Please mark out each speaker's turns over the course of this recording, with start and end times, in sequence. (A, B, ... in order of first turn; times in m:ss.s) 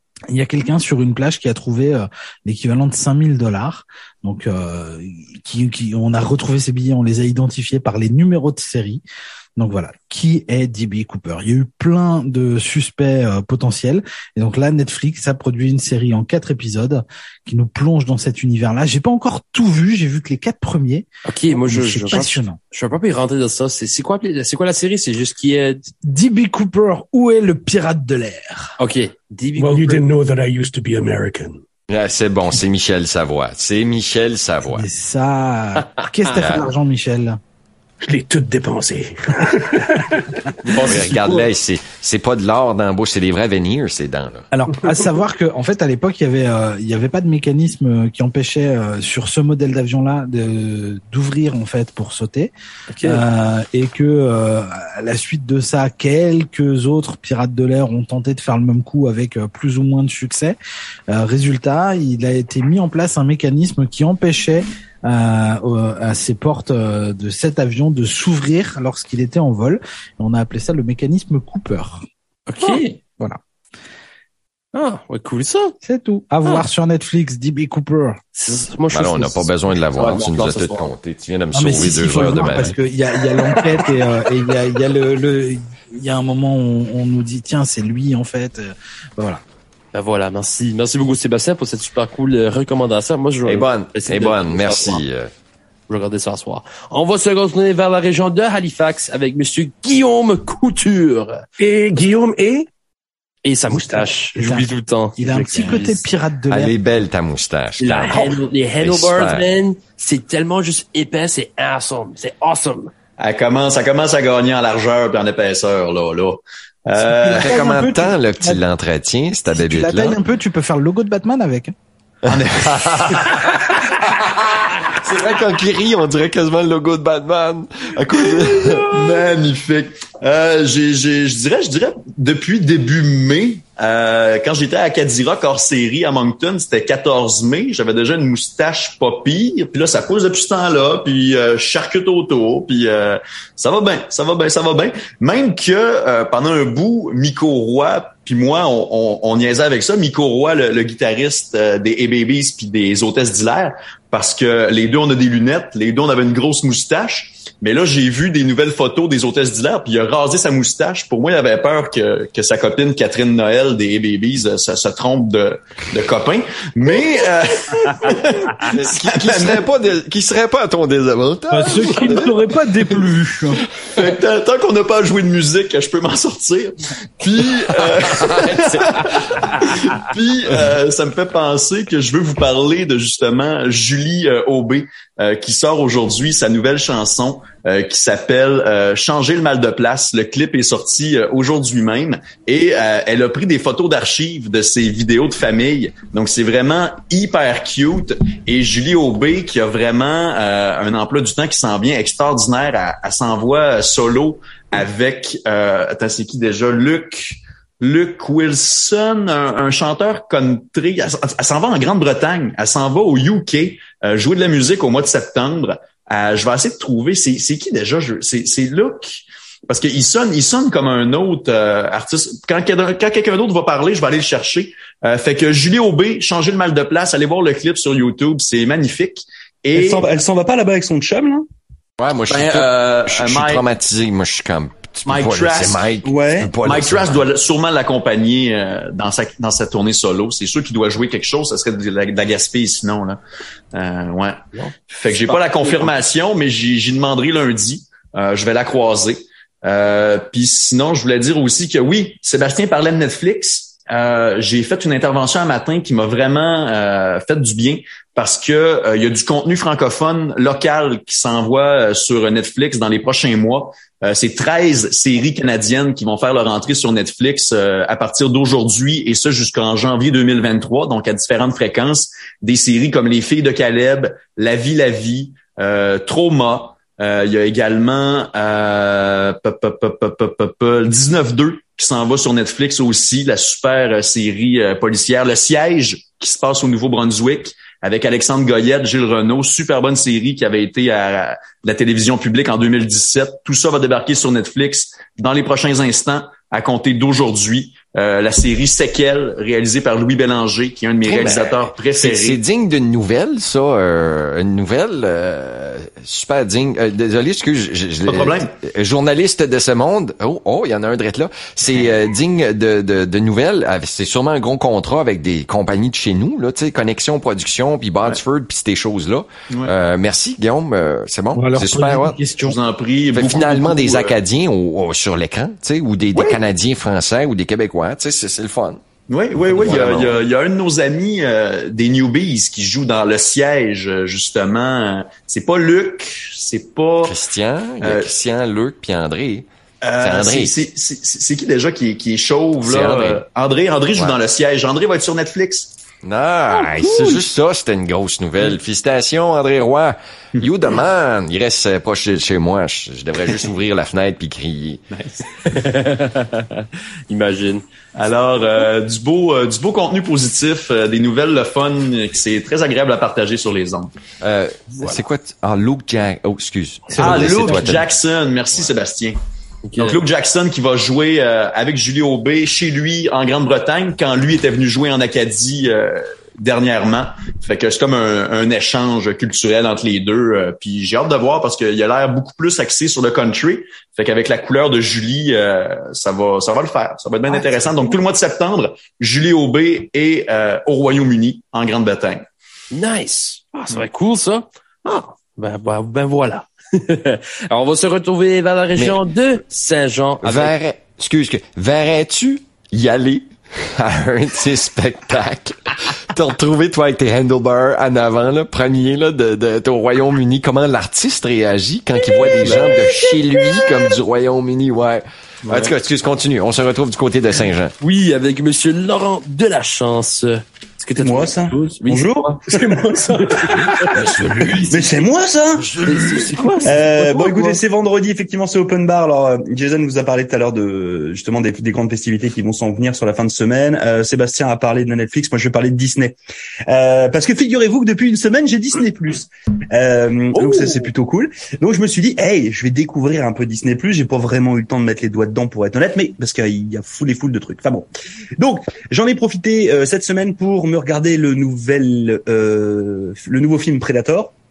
0:00.3-0:09.0 A
0:09.6-0:22.6 A
0:21.2-0:25.9 B
0:26.0-0:28.8 A
0:28.8-0:30.0 B
0:29.6-0:31.6 C
0:31.9-0:34.9 D
0:34.7-0:37.4 A
0:36.3-0:36.7 D
0:38.0-0:41.2 C
0:40.7-0:44.4 D
0:44.5-1:00.6 A
0:52.9-0:53.2 B
1:01.1-1:12.0 A
1:12.5-1:13.0 B
1:12.6-1:13.4 A
1:14.7-1:15.8 B
1:15.8-1:18.2 A
1:18.4-1:20.9 B
1:18.9-1:22.8 D
1:21.5-1:29.4 A
1:29.9-1:35.0 B
1:33.4-1:35.3 D
1:35.9-1:41.4 B
1:41.6-1:42.7 C
1:43.4-1:46.0 B
1:43.7-1:44.1 C
1:44.3-1:46.7 A
1:46.5-1:49.5 D
1:47.8-1:52.9 B
1:53.2-1:57.5 E
1:57.0-1:58.6 A
1:57.4-2:00.2 D
1:59.5-2:01.7 A
2:02.3-2:03.7 E
2:02.3-2:03.4 D
2:04.2-2:09.0 D
2:08.4-2:49.6 E
2:48.6-2:52.4 D
2:51.5-2:53.6 A
2:53.9-3:50.1 E
2:57.9-2:58.9 D
3:49.8-3:51.4 F
3:52.0-3:57.2 D
3:52.3-3:53.6 E
3:55.0-3:55.9 E
3:56.0-3:56.5 F
3:56.6-4:03.2 E
4:03.7-4:04.4 E
4:04.5-4:05.7 B
4:04.9-5:02.4 E
5:01.0-5:22.2 D
5:08.1-5:08.5 E
5:21.3-5:22.6 A
5:22.4-5:24.2 E
5:23.1-5:28.8 D
5:26.1-5:26.4 E
5:29.1-5:37.2 E
5:29.5-5:30.2 D
5:37.0-5:39.4 D
5:37.8-5:38.2 E
5:39.8-5:45.8 E
5:40.0-5:40.6 D
5:42.6-5:43.2 D
5:46.0-5:54.8 D
5:46.7-5:47.2 B
5:54.9-5:55.2 E
5:55.4-5:57.6 B
5:57.9-6:03.9 E
6:04.2-6:07.8 D
6:06.9-6:07.8 A
6:07.0-6:09.2 E
6:09.7-6:10.0 B
6:09.8-6:32.2 E
6:32.7-6:40.6 B
6:40.2-6:57.7 D
6:52.4-6:52.6 B
6:55.4-6:55.7 F
6:57.8-7:02.4 B
7:01.0-7:02.4 F
7:02.5-7:04.2 C
7:03.8-7:04.8 D
7:04.1-7:04.6 B
7:04.7-7:16.2 F
7:05.6-7:07.6 B
7:16.7-7:27.8 F
7:28.4-7:34.3 F